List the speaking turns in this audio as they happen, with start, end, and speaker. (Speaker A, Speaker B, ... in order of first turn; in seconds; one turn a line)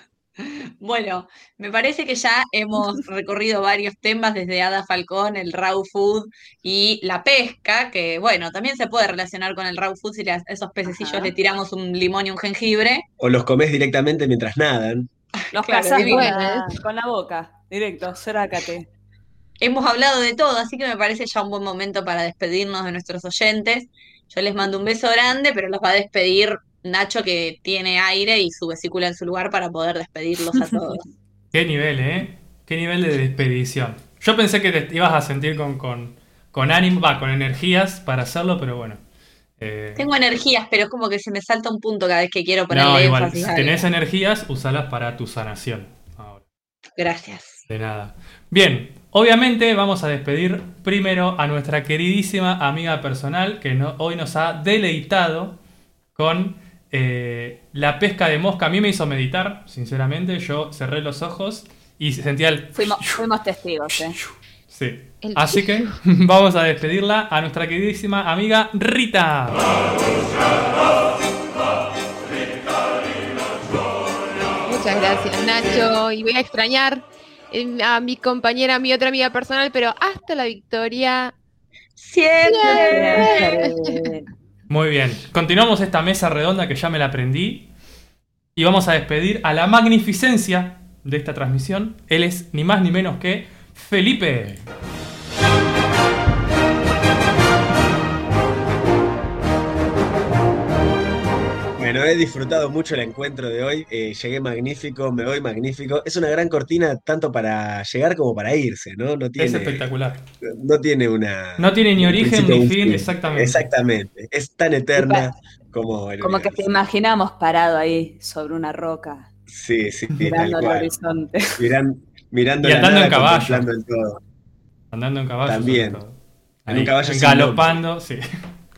Speaker A: 0.4-13.0
Speaker B: 10.9-11.3
Speaker C: 13.2-15.1
Speaker A: 15.5-16.5
Speaker B: 15.5-18.9
Speaker D: 15.9-16.7
Speaker A: 19.6-31.0
Speaker B: 30.7-31.0
Speaker E: 31.5-39.0
Speaker E: 39.6-40.0
Speaker A: 40.0-43.8
Speaker E: 42.7-46.4
Speaker A: 47.0-47.6
Speaker E: 47.7-55.5
Speaker E: 56.1-63.2
Speaker B: 62.7-64.2
Speaker E: 64.0-69.6
Speaker D: 65.2-66.0
Speaker D: 74.6-81.3
Speaker A: 82.0-83.6
Speaker D: 82.4-84.1
Speaker B: 82.7-84.2
Speaker E: 84.7-87.7
Speaker E: 88.5-94.6
Speaker C: 101.8-109.8
Speaker E: 109.4-110.2
Speaker C: 110.4-116.7
Speaker E: 111.6-113.7
Speaker B: 115.0-115.2
Speaker B: 116.2-119.3
Speaker C: 119.5-120.9
Speaker B: 120.2-121.6
Speaker C: 121.6-124.2
Speaker E: 122.6-123.7
Speaker E: 124.9-128.2
Speaker C: 125.4-126.0
Speaker C: 126.7-127.8